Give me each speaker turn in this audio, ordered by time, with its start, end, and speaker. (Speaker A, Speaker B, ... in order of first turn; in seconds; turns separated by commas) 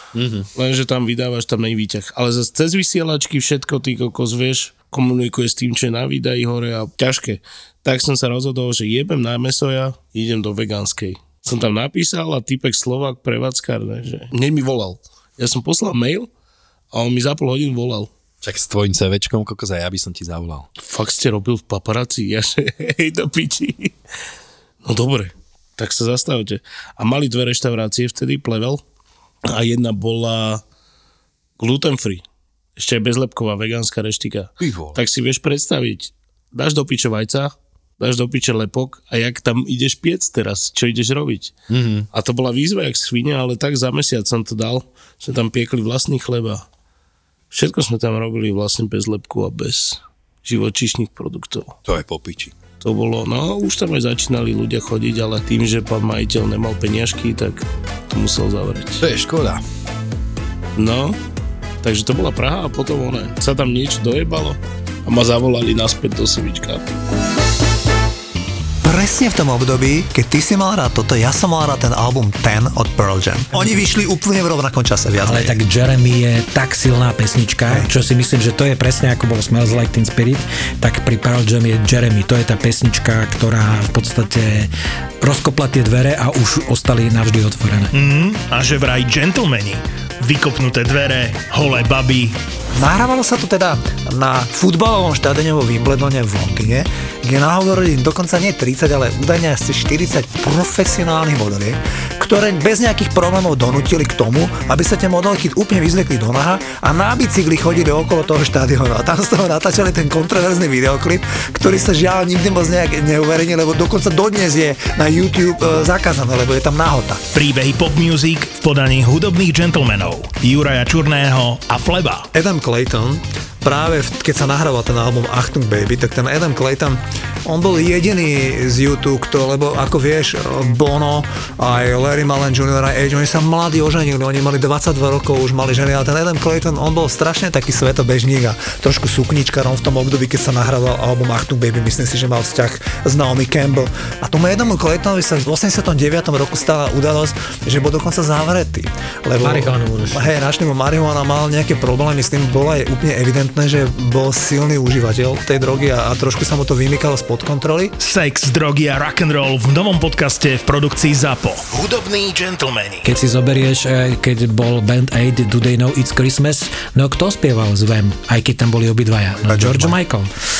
Speaker A: 0.1-0.5, Speaker B: 0.6-16.3, Speaker B: 16.9-18.1, Speaker A: 18.4-20.7, Speaker B: 20.8-23.9, Speaker B: 24.8-28.8, Speaker B: 29.5-30.6, Speaker B: 31.6-32.2, Speaker B: 32.8-41.5, Speaker A: 34.6-35.0, Speaker A: 41.7-42.1, Speaker B: 42.1-46.6, Speaker B: 47.5-51.8, Speaker A: 51.9-52.5, Speaker B: 52.8-59.0, Speaker A: 59.0-59.6, Speaker B: 60.8-61.2, Speaker B: 61.8-66.8, Speaker C: 68.8-75.6, Speaker D: 75.2-87.9, Speaker E: 87.9-92.4, Speaker C: 92.7-117.2, Speaker E: 117.3-122.3, Speaker C: 122.3-157.9, Speaker D: 149.4-150.2, Speaker E: 158.0-163.1, Speaker D: 163.0-170.3, Speaker C: 169.4-170.0